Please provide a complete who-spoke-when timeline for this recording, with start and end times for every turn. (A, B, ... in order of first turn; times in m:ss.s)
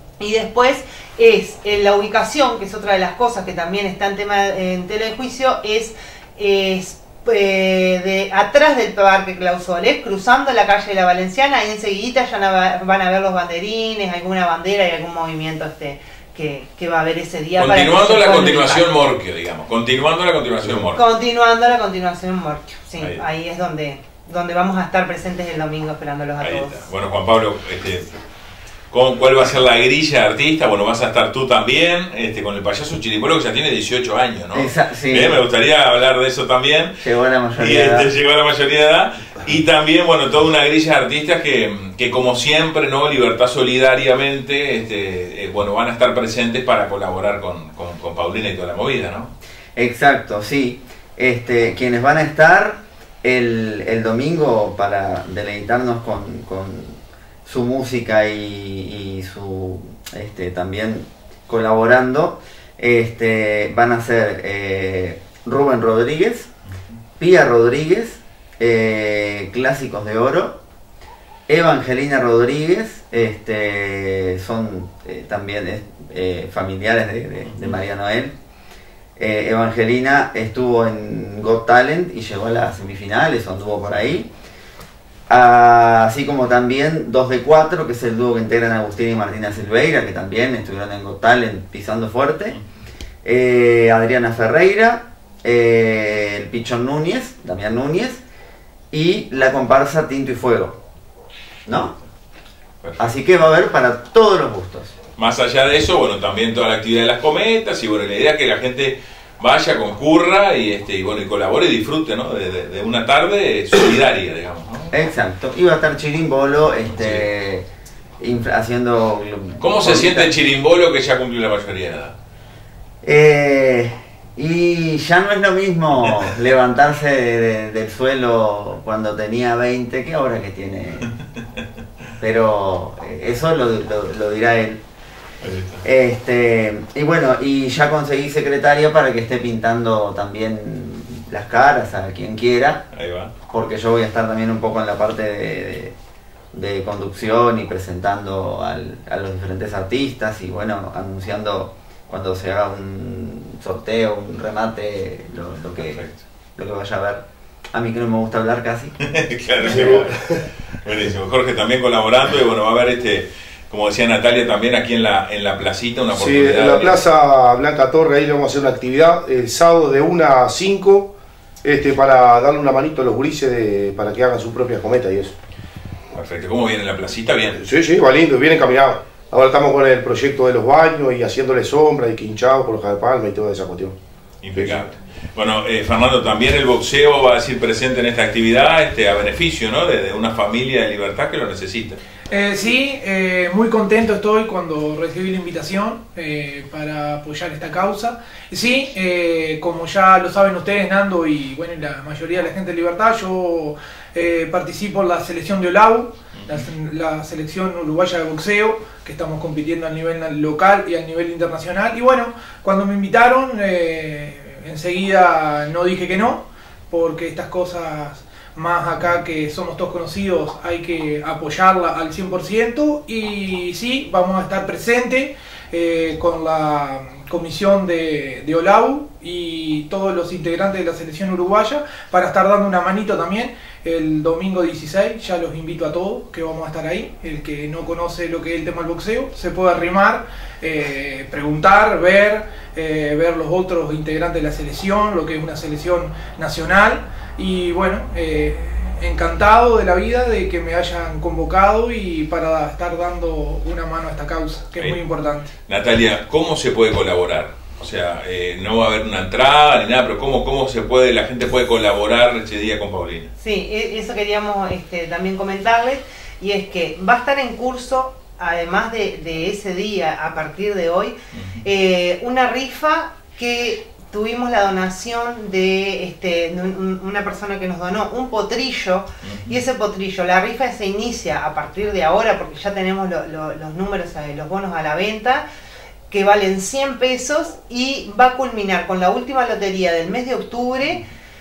0:00.2-0:18.9 A
0:17.6-0:21.0 B
0:20.9-0:26.9 A
0:26.4-0:28.1 B
0:28.9-0:36.9 B
0:34.5-0:35.4 C
0:37.0-0:38.1 C
0:37.6-0:49.3 B
0:49.8-1:06.5 C
1:07.2-1:10.6 C
1:11.5-1:18.3 C
1:17.5-1:17.8 B
1:19.2-1:24.3 C
1:25.3-1:32.6 C
1:33.2-1:38.2 C
1:38.9-1:40.8 C
1:41.6-1:41.9 C
1:42.8-1:43.1 B
1:43.0-1:44.9 C
1:45.2-1:54.9 B
1:54.9-1:57.6 C
1:56.9-1:57.2 B
1:58.2-2:00.3 C
1:59.6-2:02.1 B
2:03.0-2:11.1 C
2:12.2-2:14.8 C
2:15.4-2:15.8 B
2:15.8-2:22.8 C
2:22.9-2:23.3 B
2:23.5-2:25.9 C
2:26.5-2:36.0 C
2:35.7-2:36.2 B
2:36.6-2:38.9 C
2:39.0-2:40.2 B
2:39.7-2:40.1 D
2:40.8-2:47.0 B
2:46.2-2:51.1 D
2:51.6-2:55.3 D
2:56.1-2:57.6 B
2:57.5-3:04.0 D
3:04.4-3:12.0 B
3:04.5-3:04.8 D
3:12.3-4:15.5 E
3:26.4-3:26.6 B
4:15.7-4:23.3 B
4:23.4-4:45.4 A
4:39.2-4:39.5 B
4:46.1-4:51.0 A